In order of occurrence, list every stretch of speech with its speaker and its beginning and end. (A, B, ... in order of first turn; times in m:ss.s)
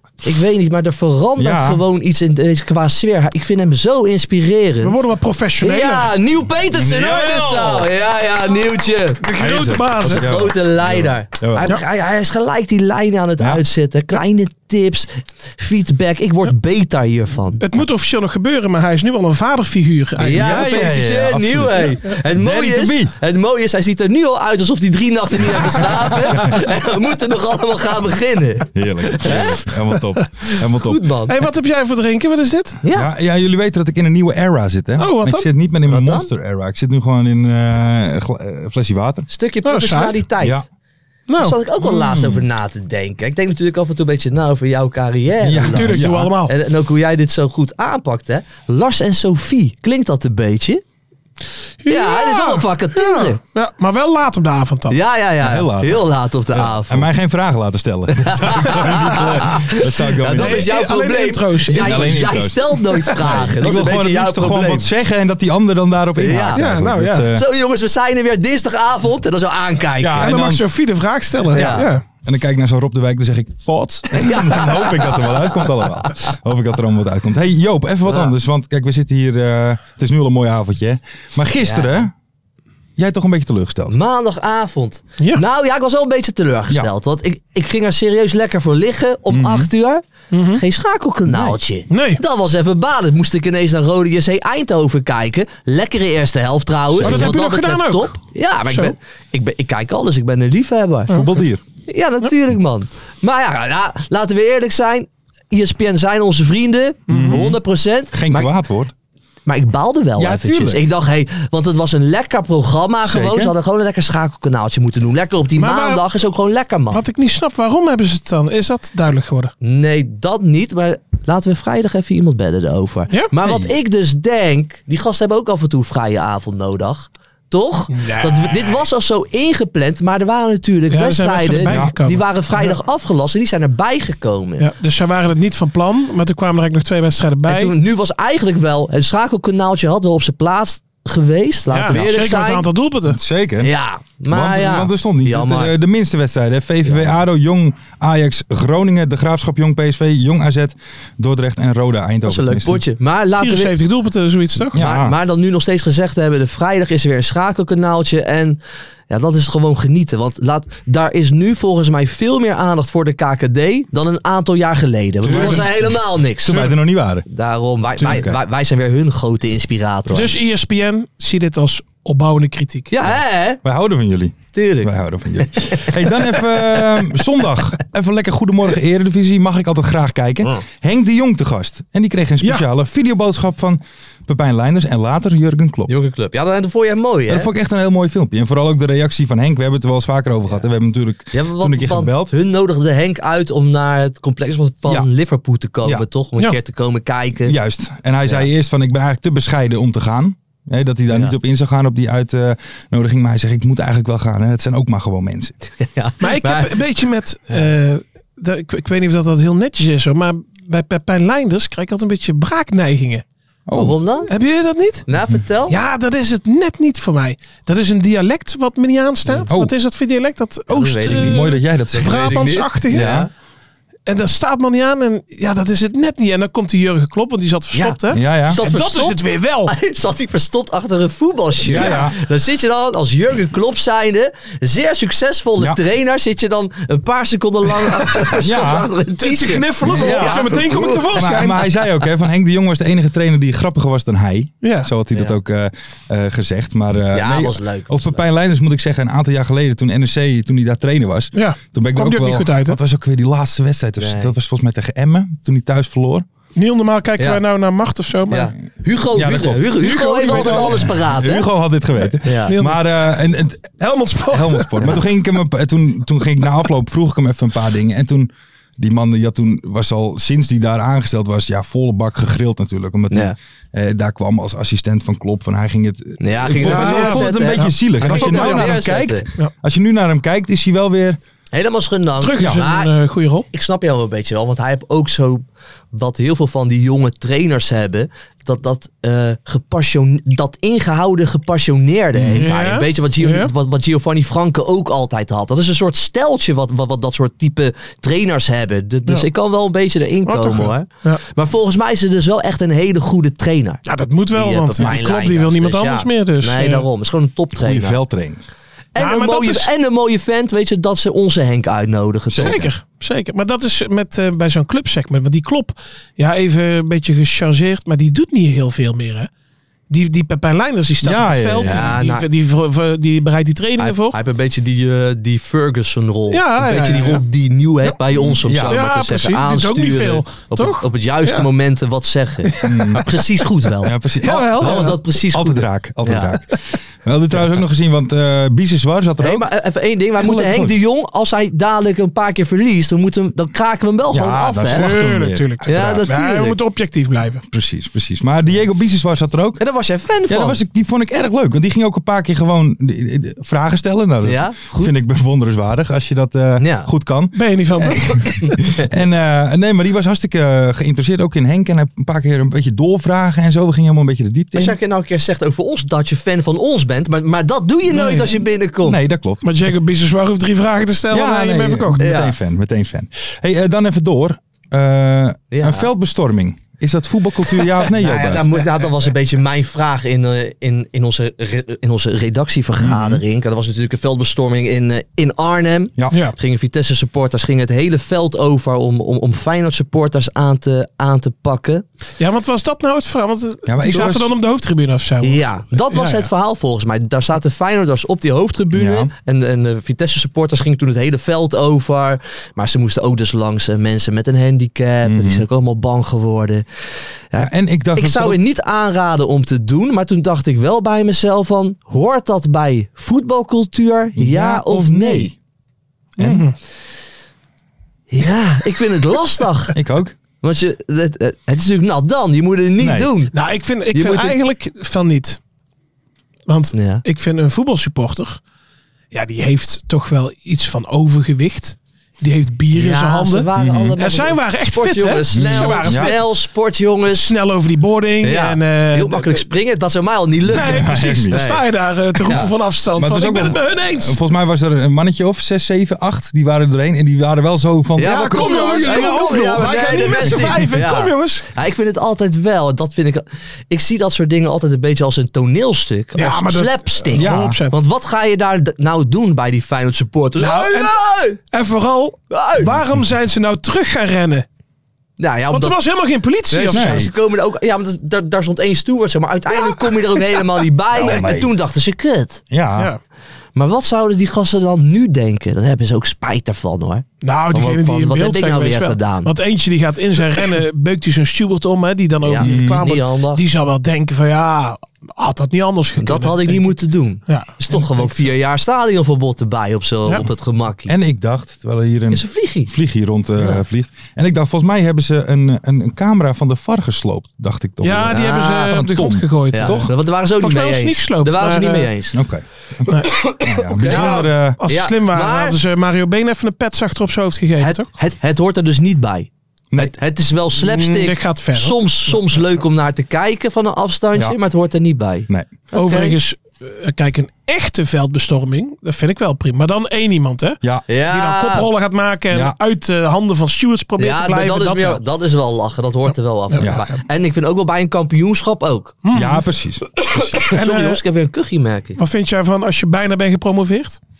0:00.2-0:05.0 A
0:01.4-0:01.8 B
0:04.8-0:06.1 C
0:05.6-0:09.3 A
0:06.7-0:07.9 B
0:09.2-0:10.4 C
0:09.4-0:11.7 B
0:10.0-0:17.6 A
0:17.6-0:21.0 C
0:20.2-0:29.6 A
0:20.2-0:23.1 B
0:28.7-0:31.0 B
0:30.8-0:31.4 A
0:31.3-0:32.8 C
0:32.8-0:33.1 A
0:32.9-0:39.3 B
0:35.0-0:35.5 C
0:35.9-0:36.3 A
0:39.3-0:40.6 A
0:39.6-0:40.2 C
0:40.4-0:40.6 B
0:41.3-0:41.6 C
0:41.4-0:50.8 A
0:41.8-0:42.4 B
0:45.4-0:46.3 B
0:45.6-0:46.5 C
0:51.8-0:55.0 C
0:51.9-0:53.4 A
0:54.9-0:57.1 A
0:55.4-1:00.7 B
0:58.2-1:04.9 A
1:00.2-1:02.3 C
1:01.7-1:07.4 B
1:06.2-1:06.6 A
1:06.6-1:07.3 C
1:07.3-1:10.4 A
1:10.0-1:10.6 B
1:10.2-1:12.0 C
1:11.5-1:11.9 A
1:11.5-1:22.1 B
1:14.1-1:16.1 A
1:21.6-1:22.0 A
1:23.0-1:24.0 B
1:23.9-1:41.2 A
1:29.3-1:29.7 B
1:30.3-1:30.6 C
1:31.3-1:31.6 B
1:31.9-1:32.2 C
1:36.9-1:37.3 B
1:37.0-1:38.2 C
1:38.7-1:38.9 C
1:41.1-1:41.6 B
1:41.8-1:48.5 A
1:47.1-1:47.5 C
1:47.1-1:47.6 B
1:48.1-1:48.9 B
1:49.4-1:57.0 A
1:50.2-1:50.9 B
1:53.0-1:53.5 B
1:55.6-1:56.1 C
1:56.9-1:59.5 C
1:59.6-2:14.7 A
2:03.4-2:03.7 B
2:07.9-2:08.8 C
2:10.9-2:12.8 C
2:11.7-2:11.9 B
2:14.6-2:17.7 C
2:17.5-2:22.7 A
2:21.7-2:23.2 C
2:23.1-2:23.7 B
2:23.6-2:25.7 A
2:24.3-2:32.8 B
2:26.8-2:27.1 A
2:32.3-2:33.7 A
2:33.4-2:34.8 C
2:34.7-2:35.2 B
2:34.8-2:46.6 A
2:45.2-2:47.2 B
2:45.3-2:45.6 C
2:46.5-2:46.7 C
2:47.3-2:50.4 A
2:48.0-2:48.4 B
2:50.1-2:52.9 C
2:52.9-2:53.6 A
2:53.6-3:05.9 B
2:54.5-2:55.9 A
3:02.4-3:02.7 C
3:05.9-3:07.5 A
3:07.3-3:12.3 B
3:11.3-3:17.5 A
3:17.5-3:25.5 B
3:21.1-3:21.3 A
3:25.8-3:26.8 A
3:26.2-3:33.2 C
3:33.7-3:34.0 B
3:33.7-3:34.3 A
3:34.3-3:35.0 C
3:35.1-3:35.8 A
3:35.7-3:43.2 C
3:40.7-3:43.3 A
3:41.1-3:42.3 B
3:42.9-3:43.3 B
3:44.0-3:49.7 C
3:47.7-4:01.2 A
3:48.1-3:48.6 B
3:51.6-3:52.2 B
3:51.7-3:52.1 C
3:58.4-3:58.9 B
3:59.2-4:01.8 C
3:59.8-4:16.2 B
4:04.6-4:04.9 C
4:07.1-4:08.2 A
4:11.3-4:12.8 C
4:14.0-4:14.3 A
4:16.5-4:18.5 C
4:18.3-4:21.5 A
4:19.1-4:41.2 B
4:19.8-4:20.9 C
4:22.0-4:22.9 C
4:22.2-4:22.5 A
4:23.8-4:25.0 C
4:33.1-4:33.4 A
4:36.2-4:39.2 A
4:36.6-4:38.8 C
4:41.5-4:42.9 A
4:42.2-4:43.5 C
4:43.5-5:08.0 A
4:52.1-4:52.4 B
4:52.4-4:53.5 C
5:00.2-5:01.2 C
5:03.8-5:06.9 C
5:07.6-5:08.4 B
5:08.9-5:12.6 A
5:09.0-5:09.7 C
5:12.3-5:12.7 B
5:12.4-5:19.3 C
5:19.9-5:24.2 C
5:21.0-5:22.0 B
5:21.6-5:22.3 A
5:23.8-5:36.4 A
5:26.3-5:27.2 C
5:28.2-5:28.8 B
5:28.6-5:31.5 C
5:32.5-5:32.8 C
5:32.6-5:33.1 B
5:33.8-5:39.5 B
5:34.2-5:35.0 C
5:39.2-5:44.9 A
5:40.2-5:40.8 B
5:44.1-5:46.0 B
5:44.7-5:47.4 C
5:45.6-5:46.6 A
5:47.5-5:49.6 B
5:49.6-5:50.6 A
5:50.3-6:04.8 B
5:54.2-5:54.9 A
5:56.6-5:56.9 A
5:57.3-5:58.4 C
6:04.5-6:09.0 A
6:07.9-6:08.4 C
6:08.8-6:09.5 B
6:09.4-6:12.1 C
6:11.1-6:18.5 B
6:12.0-6:12.3 A
6:15.5-6:15.9 A
6:17.9-6:31.8 A
6:22.8-6:23.2 B
6:26.1-6:26.4 C
6:32.2-6:36.3 C
6:33.6-6:34.3 B
6:35.2-6:46.6 A
6:38.7-6:39.1 B
6:45.0-6:45.4 B
6:47.3-6:55.3 A
6:47.4-6:48.4 B
6:54.2-6:55.3 B
6:56.2-6:56.5 B
6:56.2-6:56.6 C
6:58.1-6:59.8 A
6:59.7-7:00.2 B
7:00.4-7:03.3 A
7:02.8-7:03.1 B
7:03.3-7:05.4 C
7:03.9-7:04.4 A
7:06.5-7:08.4 C
7:06.7-7:07.0 A
7:09.1-7:16.3 C
7:12.7-7:17.3 A
7:13.6-7:13.9 B
7:15.3-7:16.1 B
7:17.1-7:19.5 C
7:18.2-7:21.6 A
7:20.5-7:21.4 B
7:20.5-7:24.2 C
7:22.2-7:22.5 A
7:23.0-7:30.7 B
7:28.0-7:41.4 A
7:28.0-7:31.5 C
7:36.2-7:37.8 C
7:37.2-7:37.6 B
7:40.4-7:44.4 C
7:42.3-7:42.7 A
7:42.7-7:43.0 B
7:45.2-7:45.8 A
7:45.5-7:47.1 C
7:46.5-7:52.4 A
7:46.7-7:47.1 B
7:50.9-7:51.5 B
7:52.5-7:52.9 B
7:53.5-7:59.3 A
7:57.2-8:08.3 C
8:02.2-8:03.4 A
8:02.4-8:02.8 B
8:06.0-8:10.9 A
8:10.9-8:19.9 B
8:12.1-8:12.7 A
8:17.8-8:21.9 C
8:18.1-8:18.8 A
8:19.5-8:22.2 A
8:22.1-8:24.6 B
8:22.9-8:23.1 C
8:23.0-8:25.6 A
8:23.8-8:27.9 C
8:27.6-8:36.2 A
8:30.6-8:32.5 C
8:35.7-8:45.0 C
8:40.9-8:41.7 A
8:42.3-8:42.6 B
8:44.0-8:49.0 A
8:46.5-8:47.0 C
8:46.6-8:46.8 B
8:49.0-8:49.4 C
8:49.1-8:49.8 B
8:50.1-8:52.0 A
8:50.4-8:51.0 C
8:52.0-8:54.0 C